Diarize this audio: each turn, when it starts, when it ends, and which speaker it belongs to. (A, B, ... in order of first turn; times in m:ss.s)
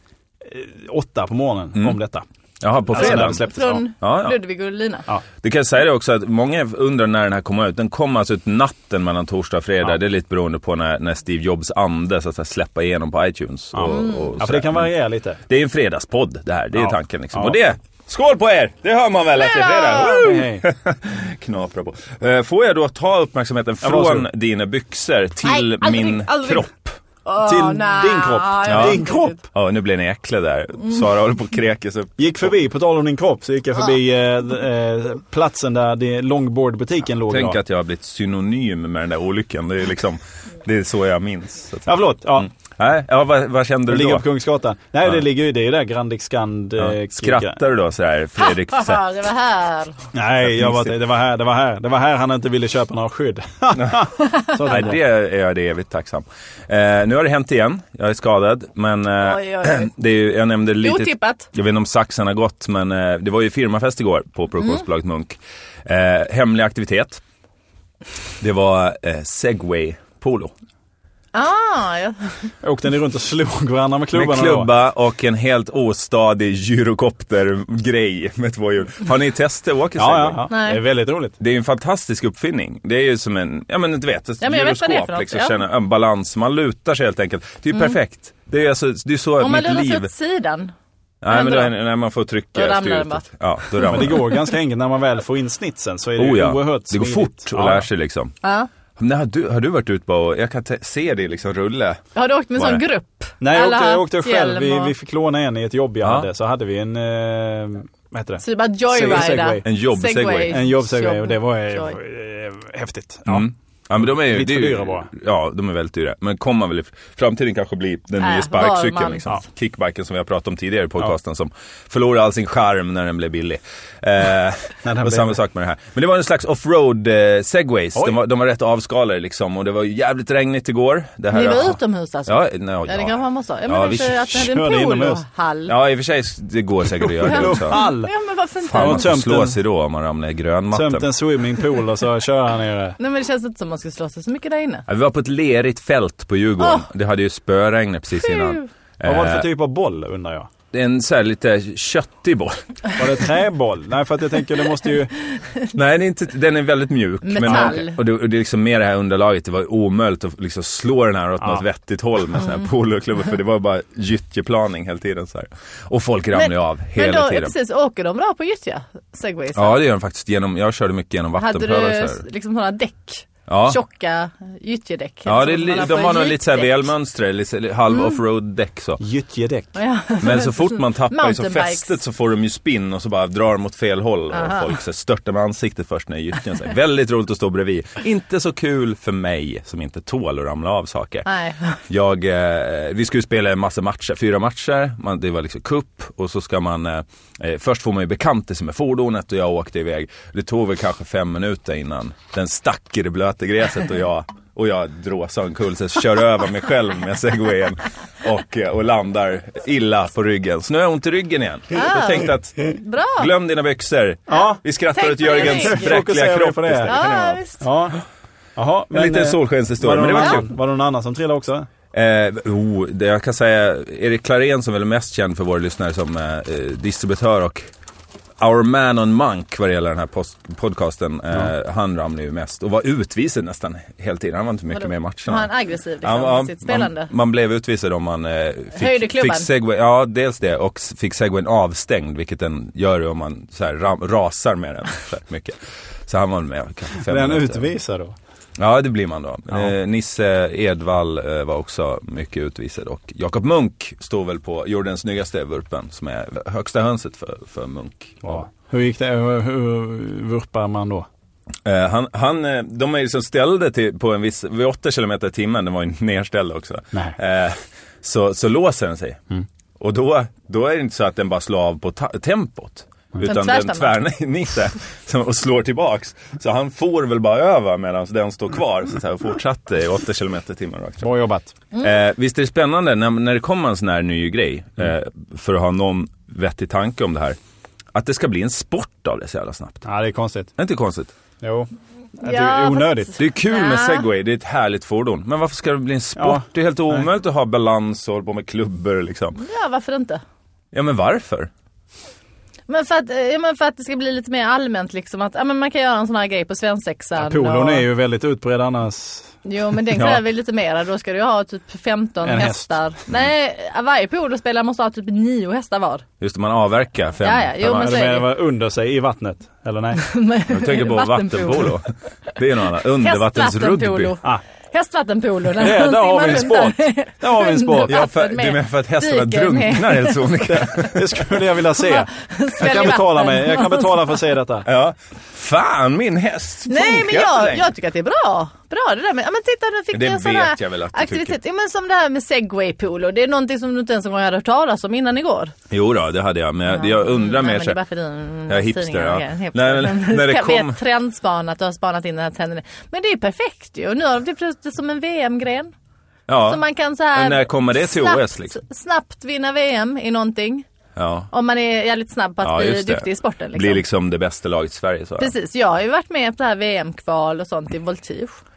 0:00.4-0:02.3 A
0:02.6-0:03.4 B
0:02.9-0:03.8 A
0:02.9-0:05.1 C
0:04.0-0:04.4 B
0:05.4-0:14.9 B
0:13.7-0:15.4 A
0:13.9-0:14.4 C
0:15.5-0:27.0 B
0:16.8-0:17.6 A
0:19.4-0:20.4 C
0:20.0-0:20.7 A
0:23.8-0:24.3 A
0:25.4-0:26.7 C
0:27.2-0:29.4 C
0:27.4-0:29.4 A
0:28.7-0:32.2 B
0:32.2-0:37.6 A
0:37.3-0:44.3 B
0:41.9-0:42.5 A
0:43.9-0:47.6 A
0:46.8-0:49.0 B
0:48.4-0:50.0 C
0:50.1-0:55.0 A
0:50.5-0:50.9 B
0:53.8-0:54.0 B
0:54.6-1:07.2 B
0:59.2-0:59.9 C
1:00.8-1:01.5 C
1:04.6-1:04.8 C
1:08.4-1:10.5 B
1:11.3-1:12.5 C
1:12.6-1:14.7 A
1:14.1-1:20.4 B
1:20.0-1:21.4 A
1:20.5-1:20.8 C
1:21.4-1:30.1 B
1:24.4-1:25.6 C
1:29.4-1:30.7 C
1:31.2-1:34.3 B
1:31.3-1:31.8 C
1:32.5-1:34.2 C
1:33.9-1:37.9 A
1:36.2-1:38.3 B
1:38.4-1:38.7 C
1:39.0-1:42.0 B
1:42.2-1:44.9 C
1:42.6-1:42.8 B
1:43.4-1:49.7 A
1:46.0-1:46.3 B
1:48.4-1:52.0 C
1:49.6-1:50.6 B
1:50.5-1:53.5 A
1:53.3-2:14.5 B
1:54.0-1:55.1 A
1:58.2-1:59.2 C
2:04.8-2:05.4 A
2:11.3-2:15.7 C
2:14.3-2:15.2 A
2:15.7-2:17.8 B
2:17.0-2:18.1 A
2:17.2-2:19.1 C
2:18.7-2:21.1 B
2:18.7-2:19.6 A
2:20.7-2:23.0 A
2:23.0-2:24.8 C
2:24.9-2:29.5 B
2:26.6-2:26.9 C
2:28.2-2:28.7 C
2:29.0-2:30.5 A
2:30.7-2:33.1 B
2:33.0-2:35.1 A
2:35.7-2:47.5 B
2:37.2-2:38.0 C
2:37.4-2:37.8 A
2:46.3-2:49.8 C
2:49.6-2:52.2 B
2:51.4-2:56.9 C
2:53.5-2:53.8 B
2:55.3-2:59.0 B
2:59.0-2:59.7 A
2:59.8-3:01.9 C
3:00.2-3:11.3 B
3:04.3-3:04.8 C
3:11.2-3:11.8 C
3:11.9-3:37.4 B
3:31.7-3:33.3 C
3:34.3-3:34.6 A
3:34.3-3:36.0 C
3:35.2-3:37.0 A
3:36.9-3:37.7 C
3:37.6-3:38.0 A
3:38.6-3:41.7 A
3:38.9-3:40.5 B
3:41.9-3:47.6 B
3:48.4-3:55.5 B
3:54.7-3:57.1 C
3:56.0-4:07.7 B
3:58.8-3:59.5 C
4:07.0-4:08.2 A
4:08.6-4:18.4 B
4:18.2-4:21.1 A
4:21.6-4:29.2 B
4:29.8-4:41.1 B
4:33.2-4:34.0 C
4:41.0-4:41.5 A
4:41.8-4:47.4 B
4:47.9-4:49.9 B
4:49.9-4:50.5 A
4:50.6-4:51.1 B
4:51.4-4:53.1 A
4:52.2-4:54.1 C
4:53.2-4:59.4 B
4:56.2-4:57.0 A
4:59.4-5:00.2 C
5:00.7-5:01.5 B
5:02.7-5:07.9 C
5:07.2-5:10.2 A
5:09.4-5:16.0 C
5:12.2-5:12.7 A
5:16.2-5:18.1 B
5:17.2-5:18.3 C
5:17.7-5:20.0 A
5:20.0-5:21.8 C
5:20.5-5:24.2 B
5:23.0-5:30.9 C
5:25.6-5:28.0 A
5:27.8-5:31.2 B
5:30.5-5:34.7 A
5:31.7-5:34.2 C
5:34.7-5:37.7 B
5:36.7-5:45.5 C
5:39.9-5:41.4 B
5:45.7-5:47.8 B
5:46.6-5:55.7 C
5:48.5-5:50.8 B
5:56.3-5:56.6 B
5:56.5-6:00.7 C
5:57.1-5:58.6 B
6:01.0-6:01.3 B
6:01.3-6:03.8 C
6:02.4-6:05.3 B
6:05.2-6:08.4 C